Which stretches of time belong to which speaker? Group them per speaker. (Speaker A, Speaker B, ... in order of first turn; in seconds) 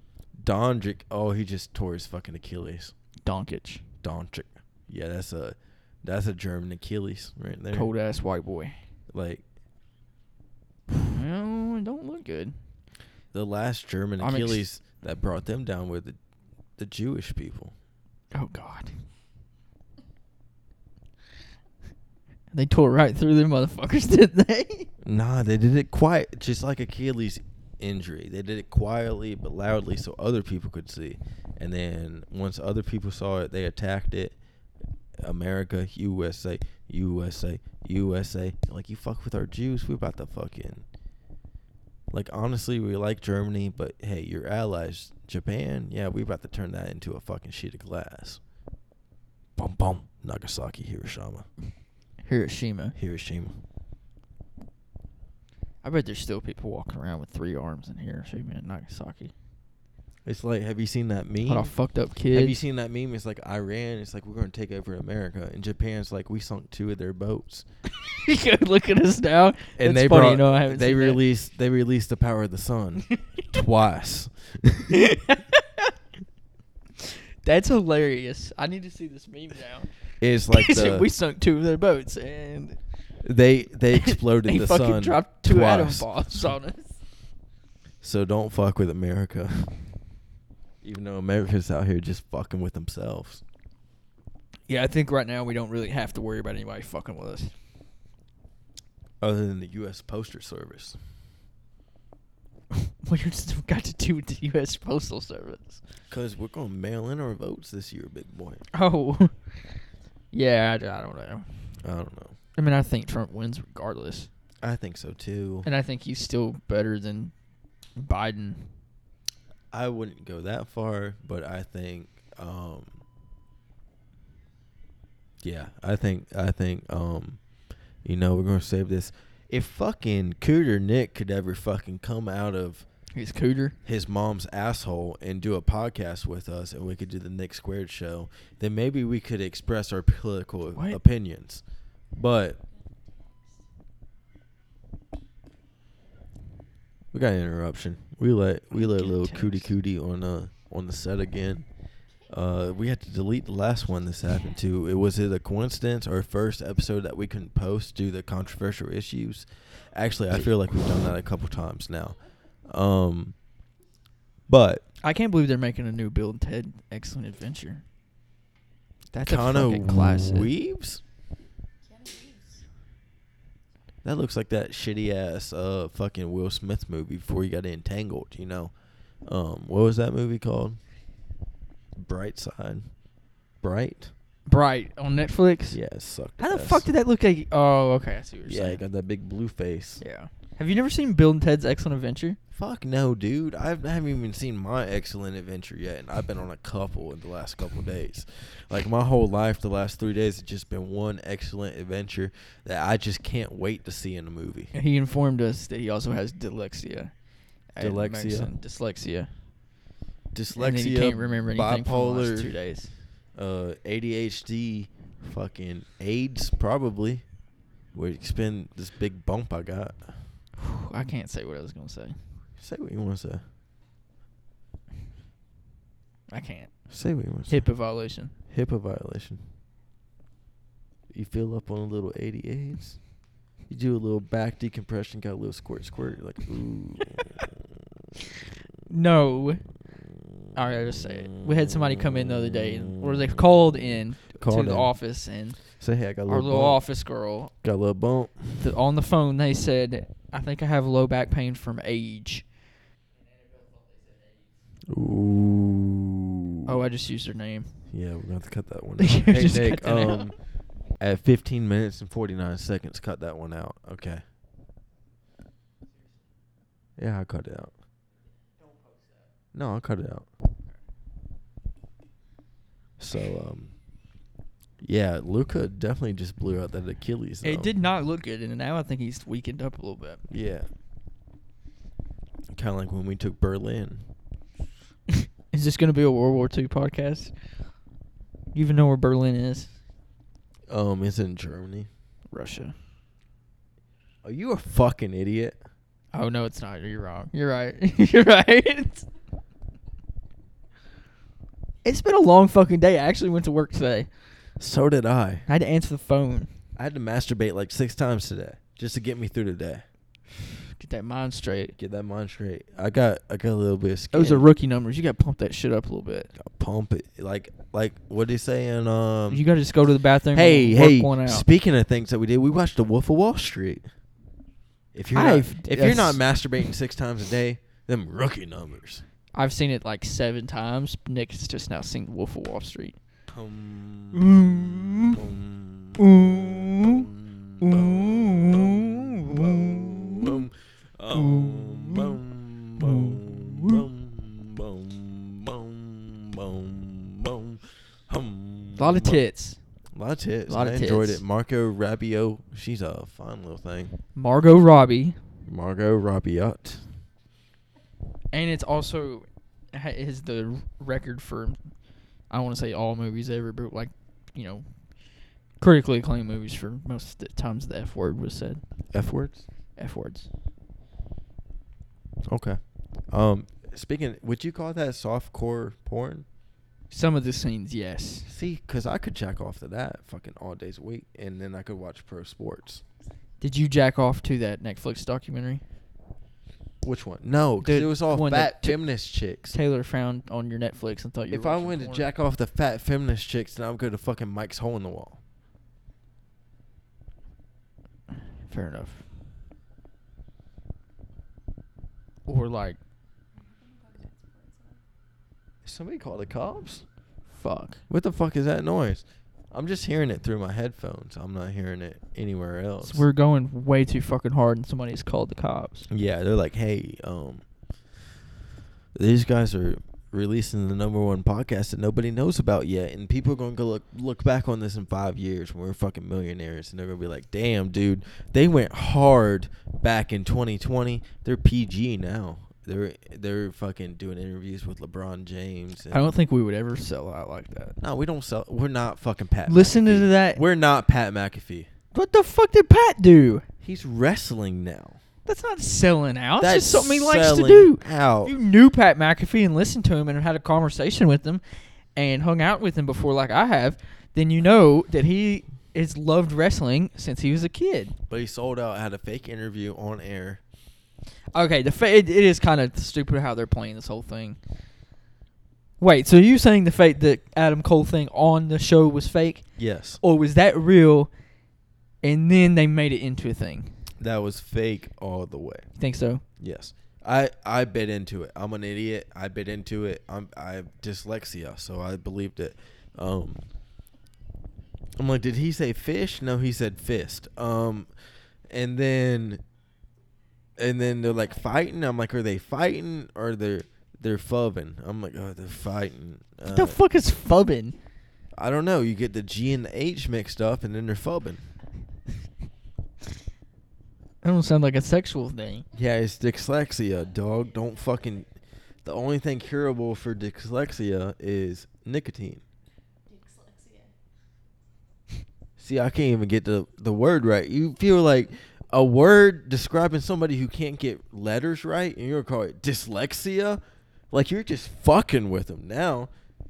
Speaker A: 0.4-2.9, 4.0-7.9, 9.1-9.4, 13.3-16.2, 16.8-17.7, 25.0-34.4, 35.2-40.8, 42.1-48.4, 49.6-51.5, 53.0-53.6, 60.2-61.7, 62.3-67.6, 69.8-75.0, 80.2-81.1, 83.2-86.1, 88.0-89.8, 90.8-93.4, 99.2-101.0, 106.1-108.6, 111.8-112.3, 114.6-115.7, 119.7-122.9, 125.4-127.4, 128.0-132.8, 133.8-142.6, 147.1-151.7, 152.3-163.3, 164.5-164.8, 169.2-171.0, 174.0-180.8, 181.9-184.1, 185.7-186.8, 188.4-190.0, 192.5-204.7, 207.8-208.5, 210.3-212.6, 213.3-217.4, 217.9-220.2, 222.6-223.4, 226.9-227.7, 228.5-229.4, 231.1-237.5, 241.4-243.8, 244.3-244.9, 245.8-246.8, 247.6-248.7, 254.9-256.8, 257.9-264.2, 267.0-267.7, 269.5-270.3, 273.0-273.8, 274.8-277.7, 280.3-280.7, 282.5-284.1, 290.7-291.9, 294.2-295.6, 304.6-305.5, 306.8-309.8, 311.8-314.5, 316.4-319.4, 320.3-323.9, 324.9-329.0, 333.3-349.2, 349.9-353.9, 355.5-356.9, 368.9-369.4, 372.3-376.2, 378.2-382.8, 386.8-389.6, 391.3-395.2, 405.6-406.8, 407.9-413.0, 415.9-417.4, 418.9-436.1, 437.8-441.7, 443.6-445.0, 446.4-448.3, 458.1-460.4, 469.6-470.0, 474.0-475.7, 476.4-483.5, 485.0-487.9, 488.5-489.4, 490.6-496.8, 498.4-501.4, 505.7-508.2, 508.8-512.4, 515.6-526.1
Speaker B: 3.2-3.8, 7.7-8.8, 10.9-12.5, 14.2-14.6, 18.3-18.9, 22.5-24.9, 52.2-52.9, 55.8-59.3, 61.5-62.6, 68.0-71.2, 74.9-75.9, 77.4-79.9, 80.5-82.8, 84.0-87.0, 94.7-97.5, 103.0-105.8, 108.7-109.6, 110.3-111.5, 112.5-114.3, 115.6-117.3, 118.0-118.7, 133.1-133.8, 148.7-149.7, 165.0-167.8, 169.1-170.5, 184.5-185.8, 186.4-188.8, 190.0-192.4, 204.7-207.1, 207.7-209.3, 210.6-212.9, 220.6-222.2, 226.3-226.9, 227.5-228.3, 238.9-239.7, 240.5-247.5, 248.6-252.5, 256.6-257.7, 259.0-260.3, 277.4-280.2, 285.5-287.3, 288.5-289.7, 292.3-292.7, 296.1-299.0, 301.8-304.1, 305.5-306.5, 310.8-311.8, 314.1-316.3, 319.3-321.4, 325.1-326.2, 329.3-333.0, 334.1-335.2, 336.0-337.0, 337.6-340.3, 341.1-342.2, 342.8-343.8, 348.8-349.6, 350.5-351.2, 354.1-355.2, 358.3-361.6, 362.3-364.6, 365.6-368.6, 369.8-370.3, 376.9-378.3, 383.4-385.6, 387.6-388.9, 389.4-392.1, 398.5-399.0, 402.3-402.8, 407.3-407.8, 412.8-415.9, 435.9-437.8, 439.5-440.4, 441.9-443.4, 445.2-451.4, 451.9-457.9, 461.3-464.4, 465.8-471.1, 472.0-473.8, 475.8-476.2, 496.5-497.7, 504.2-505.6
Speaker C: 142.7-143.5, 154.2-154.6, 171.8-172.6, 403.3-404.8, 513.0-513.9